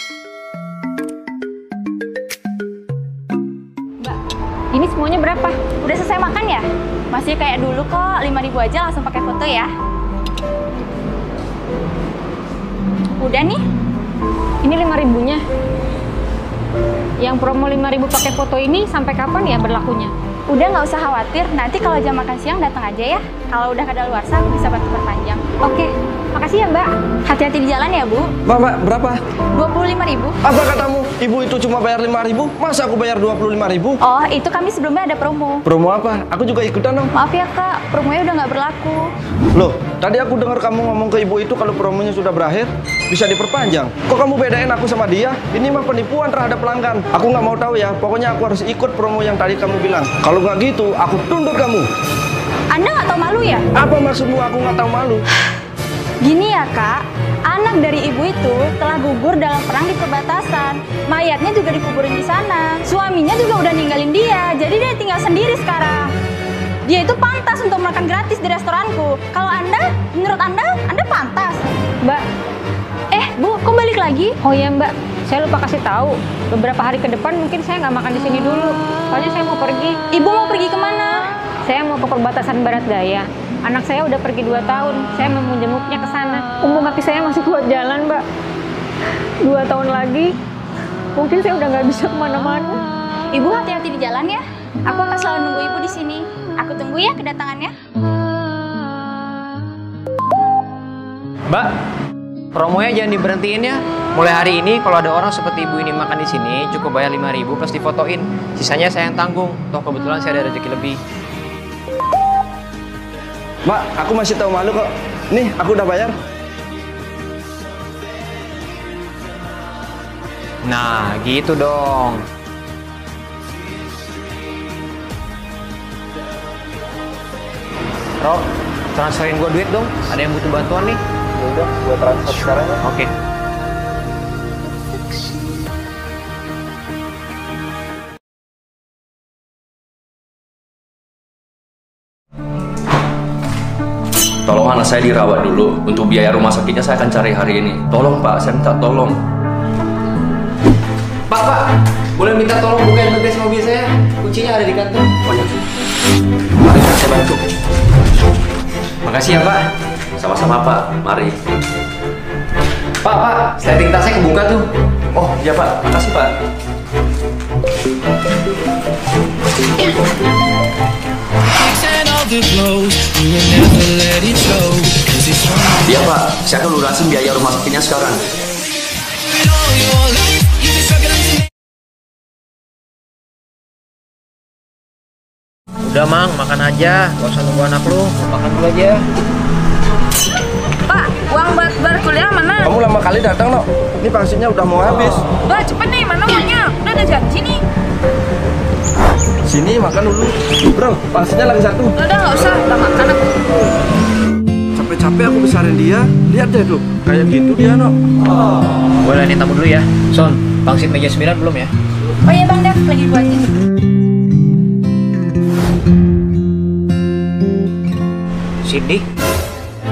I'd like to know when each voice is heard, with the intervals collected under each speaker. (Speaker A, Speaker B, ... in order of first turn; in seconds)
Speaker A: 4.7-5.6, 14.6-15.4, 17.2-20.1, 25.6-26.9, 74.4-80.0, 81.7-88.2, 89.4-90.3, 91.2-92.8
Speaker B: 5.8-9.7, 13.2-13.6, 20.5-25.4, 27.3-28.3, 29.5-30.4, 34.0-35.6, 37.1-39.1, 52.7-53.7, 56.2-66.1, 66.8-71.7, 73.1-74.4, 80.1-81.3, 93.3-97.8, 202.7-203.2, 212.3-213.5
Speaker C: 28.5-29.2, 30.4-34.0, 35.7-37.1, 39.5-51.9, 53.8-55.2, 113.7-116.2, 131.4-132.7, 192.6-195.2, 199.5-202.0, 204.8-208.0
Speaker D: 102.5-111.0, 120.6-122.2, 128.2-131.0, 132.8-133.1, 151.3-151.6, 152.2-155.1, 159.0-159.7, 163.0-164.7, 185.8-189.1, 209.0-211.7, 218.6-219.0
Speaker E: 144.5-149.2, 155.2-155.5, 156.6-157.4, 160.2-161.4, 165.1-166.3, 175.8-178.2
Speaker F: 190.9-192.6, 195.6-197.2, 202.1-202.7